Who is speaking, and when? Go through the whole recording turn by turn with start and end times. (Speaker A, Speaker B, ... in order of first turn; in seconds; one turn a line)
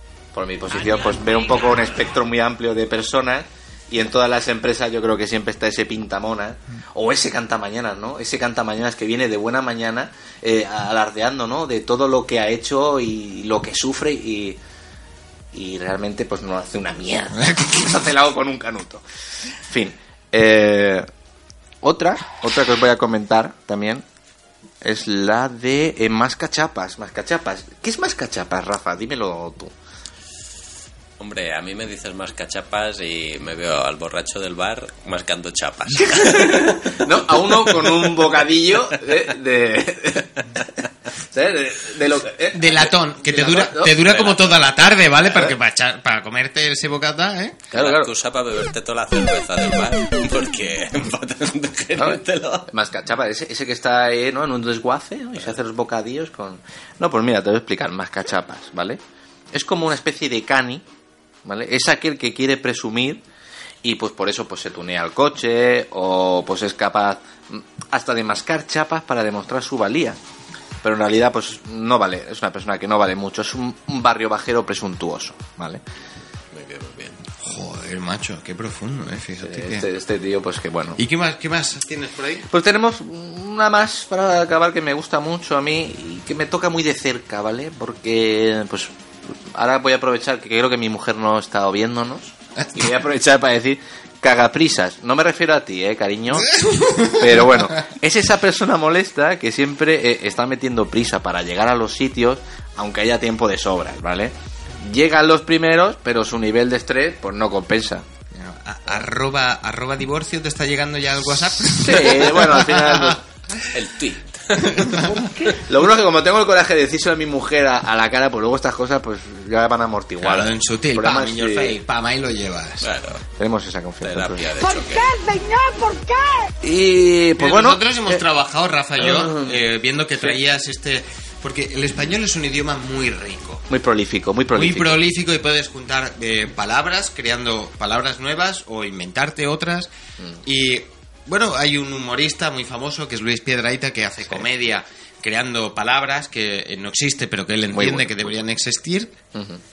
Speaker A: 0.3-14.6
Speaker A: 15.5-21.1
Speaker B: 17.4-17.9
Speaker A: 21.8-24.0
Speaker A: 24.8-29.7
Speaker C: 31.2-36.8
Speaker A: 36.0-40.7
Speaker A: 41.3-44.0
Speaker B: 42.5-47.6
Speaker C: 44.1-44.6
Speaker A: 47.7-48.1
Speaker C: 47.7-52.7
Speaker A: 52.0-59.0
Speaker A: 59.5-60.8
Speaker A: 61.4-63.2
Speaker A: 63.8-70.2
Speaker A: 70.8-75.8
Speaker C: 76.5-77.2
Speaker B: 77.4-79.8
Speaker A: 79.4-81.0
Speaker B: 81.0-82.5
Speaker A: 82.5-88.9
Speaker A: 89.5-96.5
Speaker B: 92.6-92.9
Speaker B: 96.3-97.8
Speaker A: 97.0-108.0
Speaker B: 108.3-113.7
Speaker A: 111.8-113.2
Speaker C: 113.7-115.1
Speaker B: 114.6-115.2
Speaker D: 115.2-115.5
Speaker A: 115.6-121.8
Speaker B: 120.2-122.8
Speaker C: 122.8-123.2
Speaker A: 123.4-124.5
Speaker C: 124.0-125.1
Speaker D: 124.6-126.5
Speaker A: 126.6-128.2
Speaker B: 127.4-133.6
Speaker A: 129.0-129.6
Speaker A: 133.7-135.0
Speaker B: 134.5-139.9
Speaker B: 140.4-149.2
Speaker A: 147.7-148.3
Speaker A: 149.3-149.6